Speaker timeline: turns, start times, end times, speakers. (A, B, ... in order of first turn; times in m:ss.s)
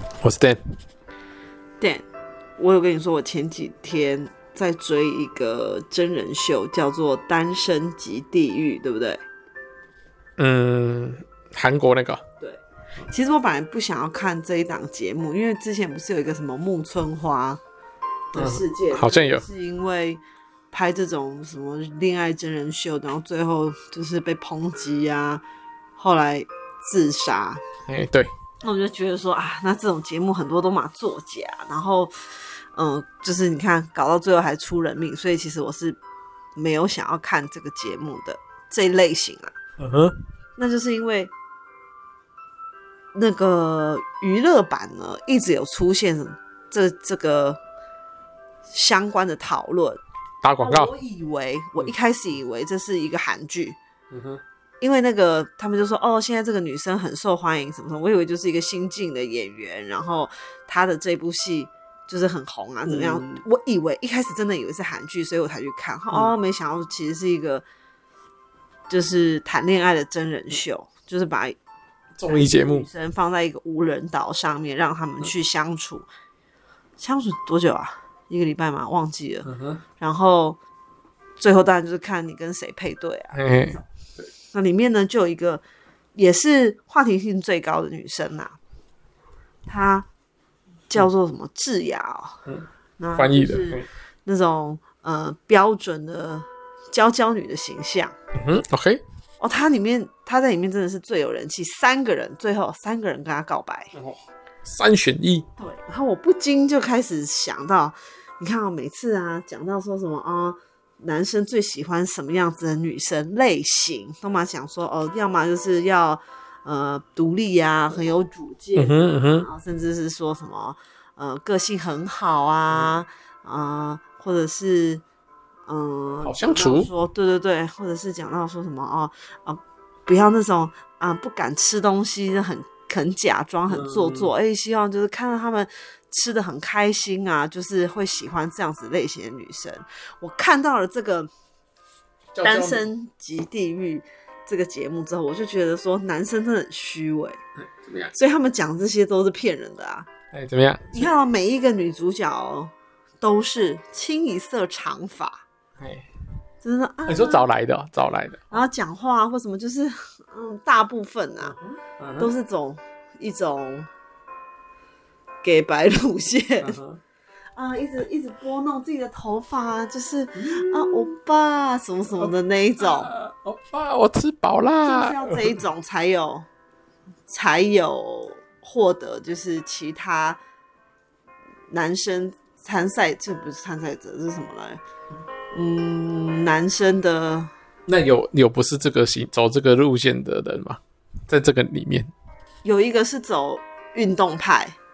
0:00.2-0:00.6 A
0:01.8-0:02.0 B
0:02.6-0:09.2 B
0:10.4-0:12.2 A
0:12.4-0:17.6 B
0:18.3-0:25.4 B
0:18.3-0:19.4 A
0:26.0-0:27.6 B
0:27.9-0:28.3 A
0:28.6-0:32.1 B
0:32.7-0:36.0 B
0:36.6-0:39.6 B
0:39.8-0:40.2 A
0:40.6-0:41.3 B
0:43.1-0:47.6 B
0:48.7-0:50.0 B
0:50.4-0:50.9 A
0:50.6-0:53.8 B
0:54.1-0:54.4 A
0:54.8-1:07.6 B
1:02.9-1:03.4 A
1:08.9-1:11.6 B
1:12.2-1:12.9 A
1:12.3-1:16.0 B
1:17.0-1:20.6 B
1:19.4-1:19.8 A
1:21.4-1:23.8 B
1:23.3-1:24.3 A
1:24.5-1:25.6 B
1:26.1-1:28.6 B
1:29.7-1:30.1 B
1:30.9-1:32.4 B
1:32.4-1:33.9 A
1:33.0-1:38.1 B
1:38.3-1:39.0 A
1:39.4-1:43.9 B
1:43.9-1:45.5 A
1:45.6-2:05.0 B
1:58.7-1:59.5 A
2:02.7-2:03.0 A
2:05.7-2:21.3 B
2:06.2-2:06.9 A
2:13.7-2:14.3 A
2:22.3-2:22.8 A
2:22.4-2:27.4 B
2:27.7-2:28.1 A
2:28.1-2:30.1 B
2:30.3-2:31.1 A
2:30.9-2:35.4 B
2:35.8-2:36.1 A
2:36.6-2:37.4 B
2:37.1-2:38.6 A
2:38.5-2:41.5 B
2:41.4-2:42.3 A
2:42.2-2:43.9 B
2:45.4-2:46.8 B
2:46.6-2:47.0 A
2:47.6-2:53.1 B
2:50.4-2:51.1 A
2:52.2-2:55.6 A
2:54.8-2:56.5 B
2:57.3-3:00.4 B
3:01.7-3:04.8 B
3:05.5-3:07.5 B
3:07.9-3:12.1 A
3:12.6-3:14.8 B